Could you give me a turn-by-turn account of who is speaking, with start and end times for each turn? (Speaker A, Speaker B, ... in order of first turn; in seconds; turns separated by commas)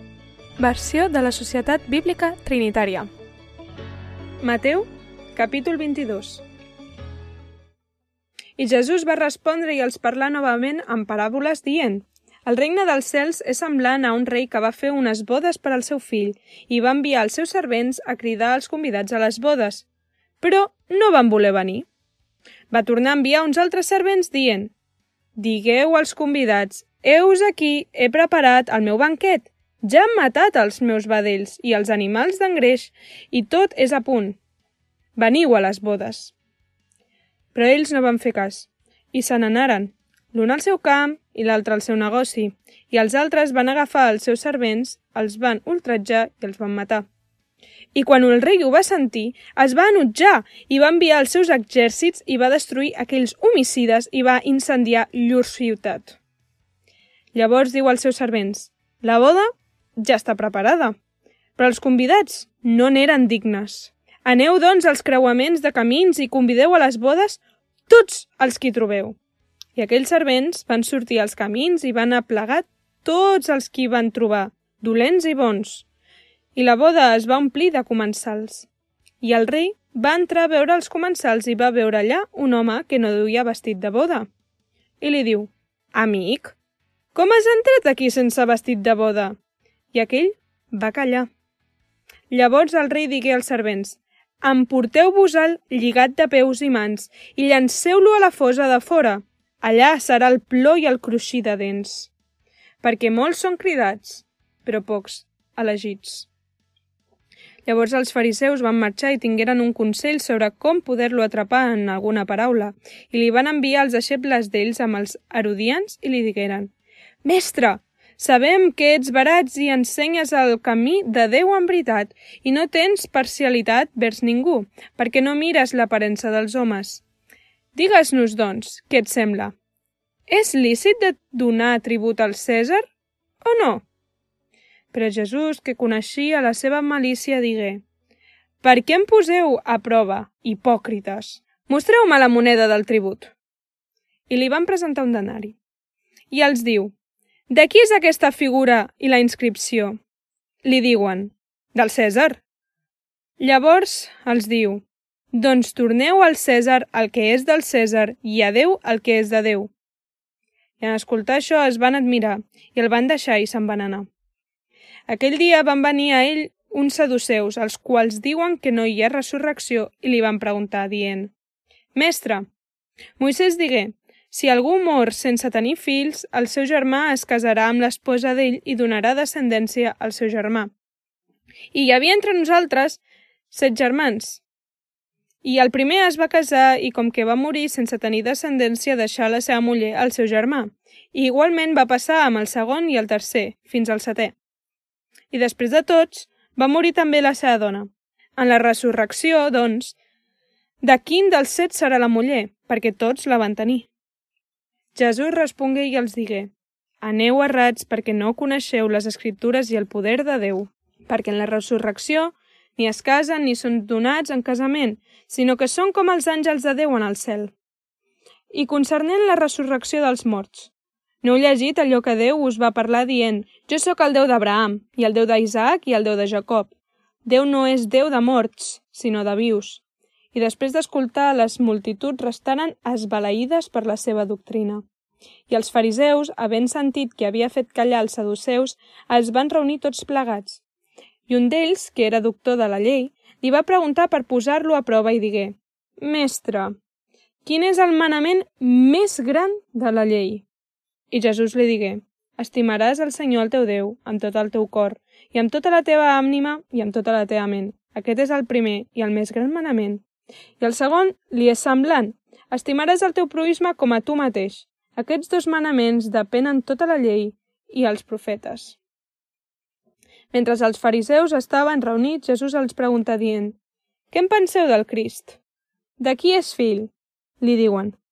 Speaker A: 0.6-3.1, Speaker A: 4.4-6.4, Speaker A: 8.6-19.9, Speaker A: 20.4-21.9, Speaker A: 22.7-24.7, Speaker A: 25.4-34.4, Speaker A: 35.1-36.3, Speaker A: 37.5-47.1, Speaker A: 47.9-56.2, Speaker A: 57.3-61.0, Speaker A: 61.6-69.2, Speaker A: 69.8-75.9, Speaker A: 76.5-78.7, Speaker A: 79.2-84.3, Speaker A: 85.0-86.5, Speaker A: 87.1-89.4, Speaker A: 89.9-91.3, Speaker A: 92.3-102.1, Speaker A: 102.8-106.3, Speaker A: 107.7-116.7, Speaker A: 117.2-127.0, Speaker A: 127.7-129.6, Speaker A: 130.3-132.9, Speaker A: 133.4-133.8, Speaker A: 134.9-137.8, Speaker A: 138.6-143.3, Speaker A: 144.3-145.6, Speaker A: 146.3-146.9, Speaker A: 147.5-150.0, Speaker A: 150.6-152.4, Speaker A: 153.4-159.7, Speaker A: 160.8-164.1, Speaker A: 165.1-171.3, Speaker A: 171.9-172.4, Speaker A: 173.2-180.7, Speaker A: 181.7-184.4, Speaker A: 185.4-194.3, Speaker A: 195.3-199.9, Speaker A: 200.8-203.9, Speaker A: 204.9-217.5, Speaker A: 218.5-226.7, Speaker A: 227.2-234.8, Speaker A: 235.5-240.6, Speaker A: 241.3-246.7, Speaker A: 247.4-250.4, Speaker A: 251.1-260.0, Speaker A: 260.6-268.8, Speaker A: 270.3-273.6, Speaker A: 274.1-275.4, Speaker A: 276.0-278.0